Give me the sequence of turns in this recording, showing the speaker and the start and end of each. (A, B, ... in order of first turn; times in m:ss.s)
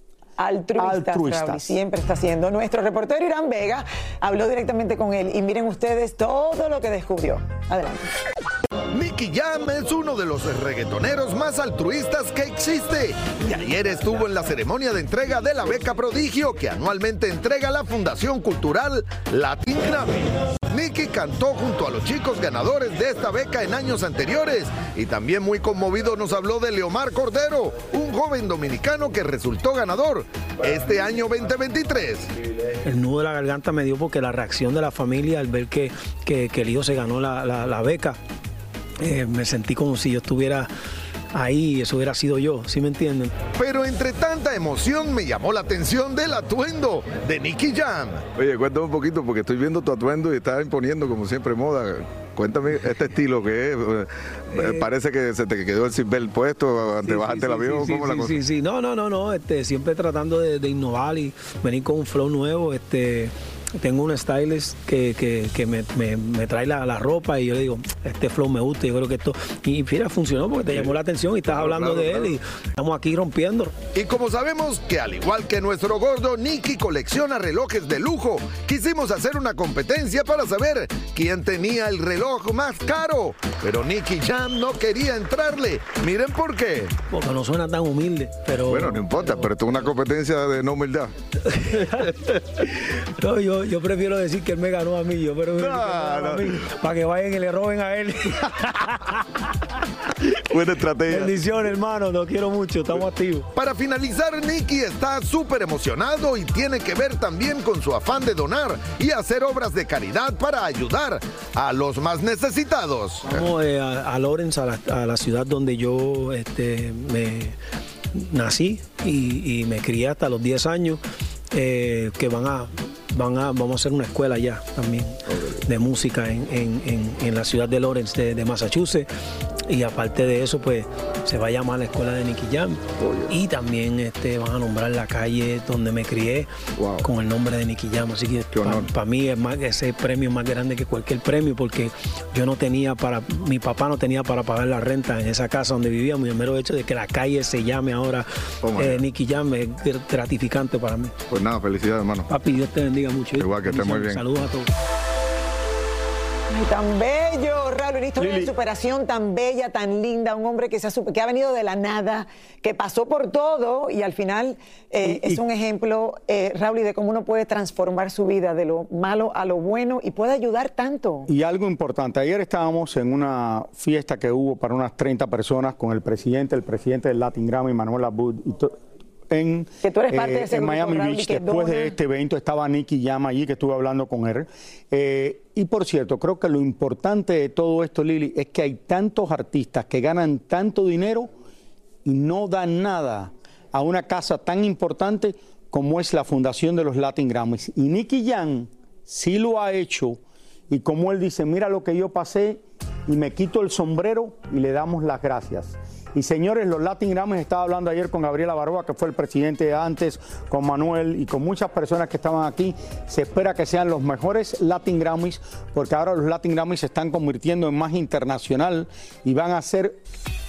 0:00.4-0:08.1 A
0:00.8-0:01.8 B
0:08.9-0:32.3 C
0:32.8-0:38.2 D
0:39.0-0:40.7 D
0:41.3-0:43.3 D
0:43.6-0:48.2 C
0:48.3-0:58.4 E
0:54.5-0:54.8 D
0:57.0-1:13.8 D
1:11.5-1:12.3 E
1:13.9-1:26.9 C
1:27.1-1:29.5 D
1:28.6-1:31.1 E
1:31.5-1:32.6 D
1:33.2-1:39.2 D
1:35.6-1:36.6 E
1:40.5-1:41.3 E
1:41.0-1:43.5 D
1:43.5-1:53.4 C
1:53.2-1:57.6 D
1:58.1-2:01.0 D
2:01.5-2:09.1 D
2:09.6-2:16.5 D
2:13.0-2:13.3 E
2:16.8-2:17.0 E
2:17.0-2:28.2 D
2:18.5-2:18.9 E
2:28.6-2:29.0 E
2:28.8-2:31.1 D
2:31.3-2:32.3 E
2:32.3-2:34.7 D
2:33.3-2:34.2 E
2:36.5-2:51.3 A
2:38.2-2:38.5 B
2:45.0-2:45.4 B
2:51.3-2:58.8 B
2:59.3-3:11.3 B
2:59.8-3:01.9 A
3:12.0-3:40.0 B